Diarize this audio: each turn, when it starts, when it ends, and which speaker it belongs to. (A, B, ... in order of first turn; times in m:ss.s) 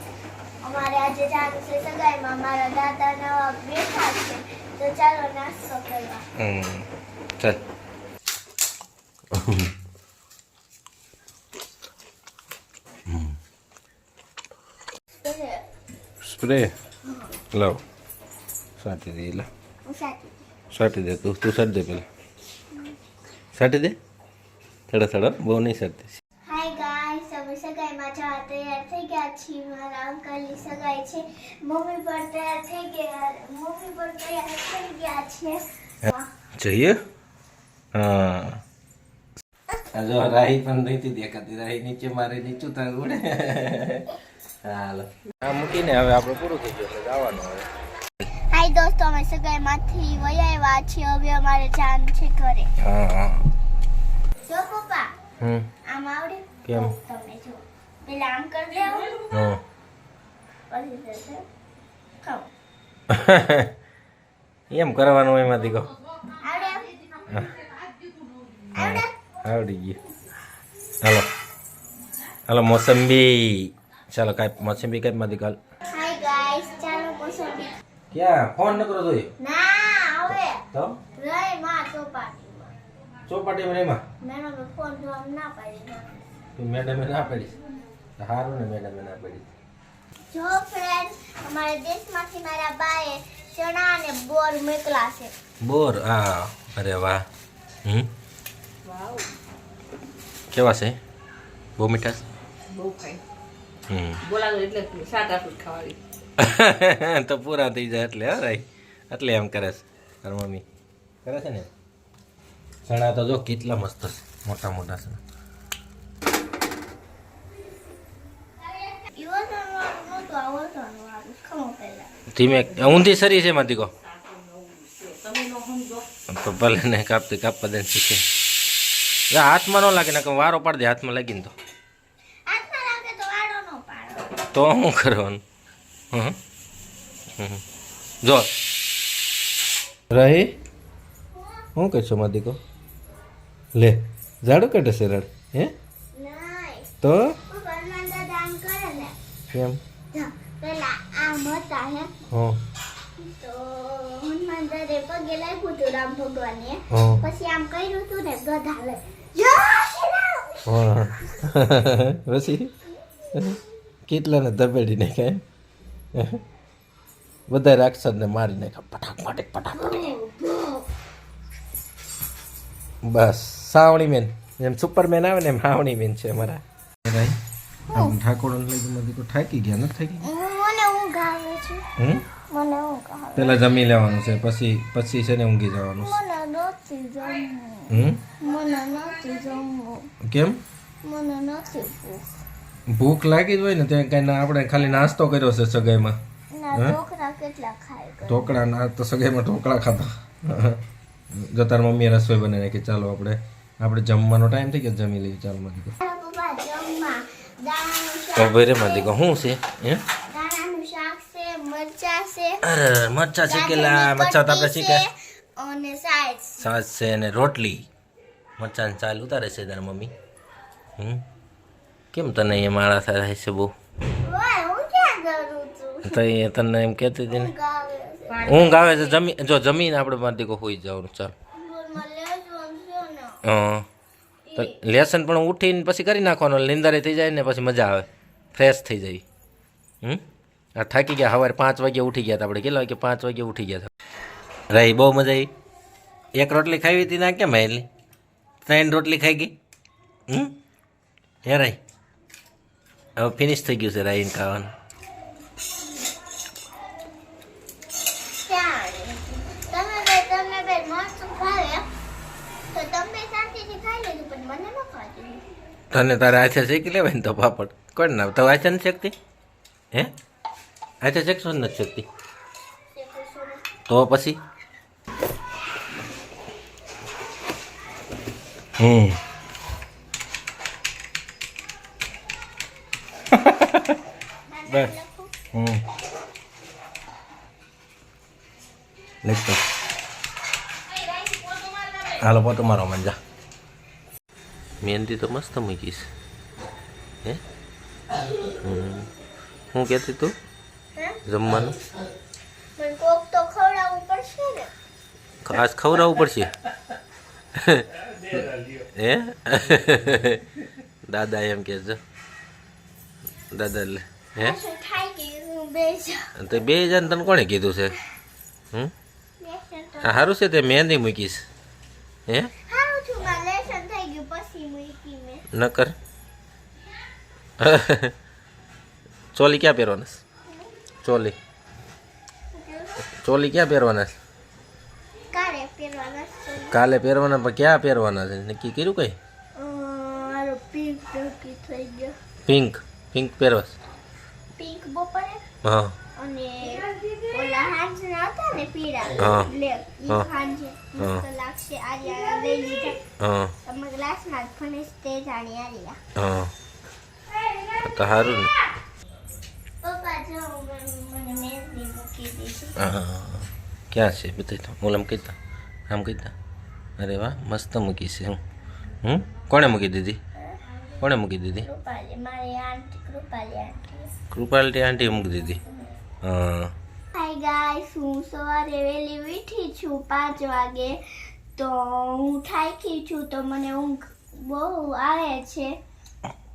0:00.6-0:06.3 A
0:06.4-0:06.9 B
0:09.3-0:09.7 B
0:13.1-0:13.4 B
0:15.2-0:15.6 A
0:16.2-0:16.7 B
0:17.5-0:17.8 B
0:18.8-0:19.5 B
0:19.8-0:20.4 A
0:20.7-0:22.1 B
0:23.5-0:24.0 B
0:24.9-0:26.1 B
0:26.5-0:36.3 A
0:36.1-0:37.0 B
0:37.9-0:38.6 B
0:40.0-0:47.7 B
0:48.5-0:52.7 A
0:52.8-0:53.5 B
0:54.5-0:55.2 A
0:55.4-0:55.7 B
0:55.8-0:59.3 A
0:56.6-0:57.0 B
0:59.3-0:59.6 B
1:00.7-1:01.4 A
1:02.2-1:02.5 A
1:03.1-1:03.7 B
1:04.7-1:05.9 B
1:06.3-1:07.1 A
1:07.3-1:07.6 B
1:08.7-1:09.2 A
1:08.7-1:10.0 B
1:11.0-1:11.3 B
1:12.5-1:15.6 B
1:15.9-1:17.8 A
1:18.1-1:19.3 B
1:19.4-1:22.7 A
1:20.7-1:21.0 B
1:23.3-1:24.0 B
1:24.2-1:26.3 A
1:26.6-1:27.6 B
1:28.2-1:29.5 B
1:30.3-1:35.4 A
1:35.6-1:37.2 B
1:37.8-1:38.1 B
1:38.8-1:39.3 C
1:40.5-1:41.0 B
1:41.8-1:42.2 B
1:42.7-1:43.2 C
1:43.9-1:44.2 B
1:44.2-1:46.0 C
1:46.4-1:50.6 B
1:51.2-1:51.7 B
1:52.9-1:55.2 B
1:59.0-2:02.1 A
2:02.3-2:03.9 B
2:04.0-2:06.0 C
2:06.3-2:08.2 B
2:09.3-2:11.5 B
2:12.5-2:14.4 A
2:14.5-2:15.4 B
2:17.4-2:17.6 B
2:18.2-2:18.5 B
2:20.1-2:20.6 B
2:21.8-2:22.6 B
2:23.7-2:25.7 B
2:26.1-2:26.9 A
2:27.0-2:27.4 B
2:27.5-2:29.2 A
2:29.5-2:29.8 B
2:30.1-2:32.1 A
2:32.3-2:32.6 B
2:33.2-2:40.7 A
2:36.9-2:37.2 B
2:40.7-2:42.7 B
2:43.3-2:45.4 B
2:46.2-2:46.4 B
2:47.5-2:50.2 B
2:49.8-2:50.9 A
2:53.0-2:57.4 B
2:57.9-2:58.2 A
2:57.9-3:00.2 B
3:00.2-3:01.8 A
3:02.0-3:02.2 B
3:02.5-3:03.8 A
3:03.4-3:06.2 B
3:06.0-3:10.1 A
3:07.9-3:08.2 B
3:10.2-3:10.6 B
3:11.0-3:12.3 A
3:12.9-3:16.2 B
3:16.5-3:18.6 A
3:18.3-3:26.0 B
3:26.0-3:29.1 A
3:28.4-3:30.0 B
3:30.3-3:32.6 A
3:32.6-3:35.0 B
3:33.5-3:36.7 A
3:36.6-3:37.9 B
3:38.6-3:40.1 B
3:41.0-3:41.2 B
3:42.1-3:43.7 B
3:44.2-3:46.2 A
3:46.0-3:47.5 B
3:47.3-3:49.2 A
3:48.3-3:48.7 C
3:48.4-3:51.3 B
3:51.6-3:53.4 A
3:53.4-3:53.9 B
3:54.5-3:54.8 A
3:54.6-3:59.2 B
4:00.8-4:03.9 B
4:04.7-4:05.5 B
4:06.3-4:07.9 B
4:08.6-4:09.5 B
4:10.3-4:10.5 B
4:11.4-4:11.8 B
4:13.2-4:14.7 B
4:18.4-4:21.9 A
4:22.7-4:25.5 A
4:25.9-4:29.2 B
4:31.0-4:32.1 B
4:32.9-4:33.7 A
4:33.9-4:34.4 B
4:38.8-4:39.2 B
4:43.4-4:44.0 B
4:44.5-4:45.4 A
4:45.5-4:45.8 B
4:49.2-4:49.6 B
4:52.1-4:53.2 B
4:54.8-4:56.1 B
4:58.6-4:59.1 B
4:59.7-5:00.3 B
5:01.2-5:01.8 B
5:02.8-5:04.7 A
5:05.4-5:06.5 B
5:07.5-5:12.0 B
5:13.5-5:14.6 B
5:14.4-5:16.3 A
5:16.4-5:18.0 B
5:19.4-5:20.3 A
5:20.0-5:21.5 B
5:22.3-5:22.5 B
5:22.7-5:25.4 A
5:25.5-5:26.0 B
5:27.6-5:28.1 B
5:29.3-5:30.2 B
5:31.0-5:31.4 B
5:32.5-5:33.1 A
5:33.2-5:34.1 B
5:35.3-5:36.8 A
5:36.7-5:39.2 B
5:39.6-5:42.2 A
5:42.5-5:43.8 B
5:44.6-5:45.4 A
5:45.6-5:46.0 B
5:46.2-5:53.0 A
5:49.2-5:49.5 B
5:51.0-5:51.2 B
5:53.2-5:53.6 B
5:53.6-5:56.0 A
5:56.2-5:56.5 B
5:57.8-5:58.5 B
5:59.8-6:02.8 A
6:02.8-6:05.4 B
6:05.9-6:06.3 B
6:07.0-6:08.4 B
6:09.0-6:10.2 B
6:11.0-6:11.7 B
6:11.6-6:14.1 A
6:14.3-6:15.6 B
6:16.2-6:16.7 B
6:17.1-6:21.0 A
6:21.6-6:25.8 A